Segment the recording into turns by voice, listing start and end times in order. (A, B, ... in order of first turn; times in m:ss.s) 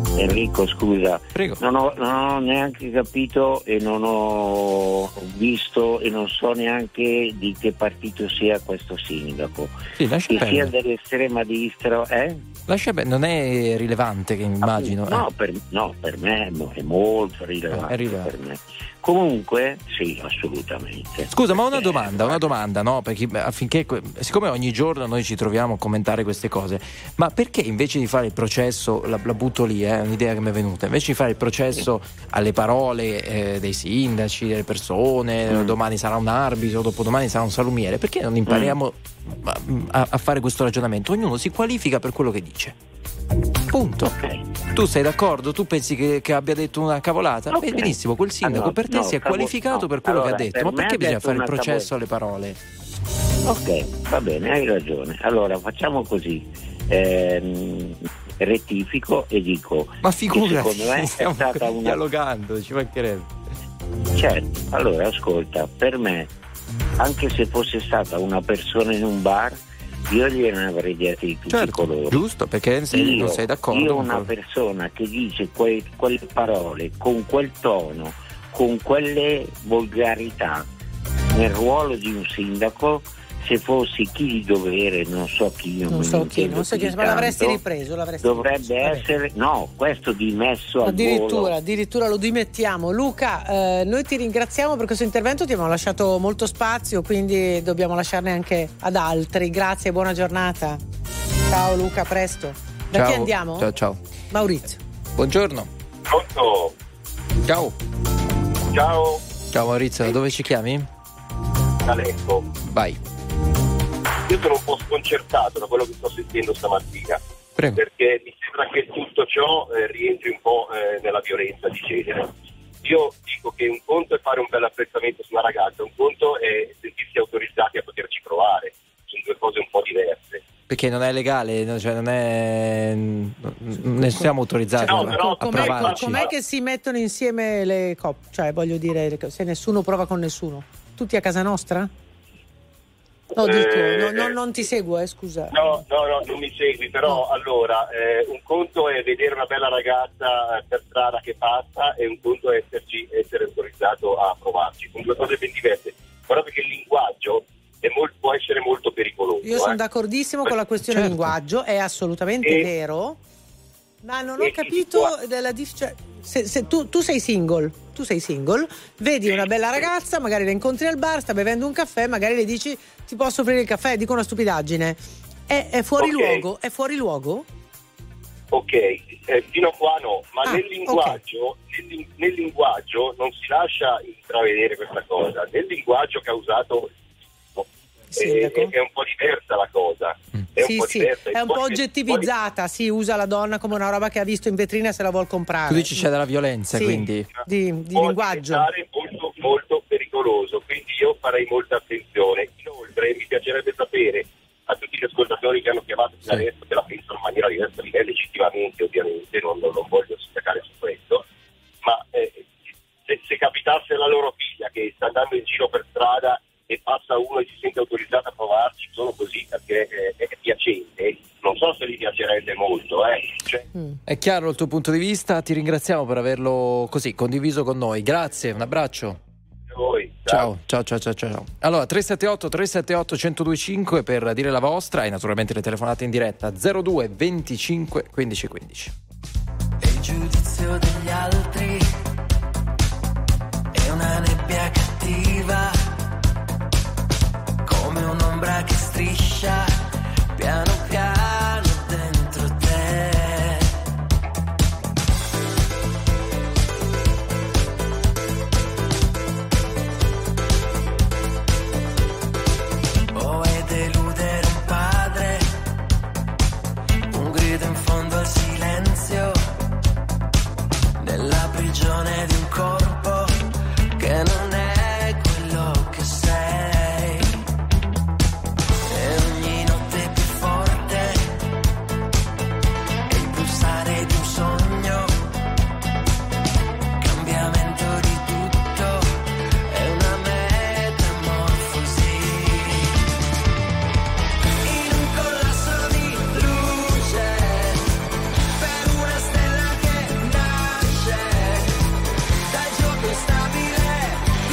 0:00.2-0:09.8 A
0:01.3-0:01.6 B
0:10.0-0:10.7 B
0:10.3-0:12.4 A
0:12.7-0:15.2 B
0:14.6-0:22.5 A
0:17.7-0:18.3 B
0:21.3-0:42.8 B
0:35.5-0:35.7 A
0:38.4-0:38.8 A
0:43.7-0:44.1 B
0:44.0-0:44.4 A
0:44.7-0:52.6 B
0:47.5-0:51.9 A
0:53.4-1:02.0 A
1:00.0-1:03.3 B
1:04.1-1:06.3 A
1:07.0-1:12.2 A
1:11.5-1:14.3 B
1:12.9-1:20.7 A
1:21.3-1:27.6 A
1:25.9-1:29.0 C
1:28.2-1:31.6 A
1:30.8-1:40.8 C
1:41.5-1:43.7 C
1:42.9-1:44.0 B
1:44.3-1:44.8 C
1:45.2-1:45.7 B
1:46.1-1:46.7 D
1:47.4-1:47.7 B
1:48.7-1:49.2 D
1:49.5-1:50.9 B
1:51.8-1:52.4 D
1:52.7-1:53.0 B
1:54.3-1:57.2 D
1:57.7-2:02.3 D
2:02.8-2:10.4 D
2:10.7-2:16.2 B
2:14.8-2:16.3 D
2:15.2-2:21.9 C
2:23.4-2:25.8 C
2:23.4-2:24.4 D
2:25.5-2:39.8 D
2:39.4-2:43.2 C
2:40.9-2:41.3 B
2:42.4-2:42.7 D
2:44.0-2:57.4 C
2:44.4-2:45.1 D
2:56.0-2:56.4 D
2:58.5-3:06.9 D
3:00.4-3:01.2 C
3:07.6-3:12.3 D
3:08.1-3:08.7 C
3:10.6-3:16.0 C
3:15.7-3:17.3 B
3:16.7-3:18.7 C
3:17.9-3:31.2 D
3:31.8-3:32.5 D
3:33.0-3:43.6 D
3:44.1-3:49.2 B
3:49.7-3:50.5 D
3:50.3-3:58.9 B
4:00.2-4:00.6 E
4:03.8-4:05.6 E
4:07.7-4:09.7 E
4:10.4-4:13.6 E
4:23.1-4:25.4 E
4:27.2-4:29.3 E
4:31.0-4:33.2 E
4:34.0-4:36.7 E
4:44.5-4:44.8 E
4:47.1-4:47.8 E
4:50.8-4:51.4 E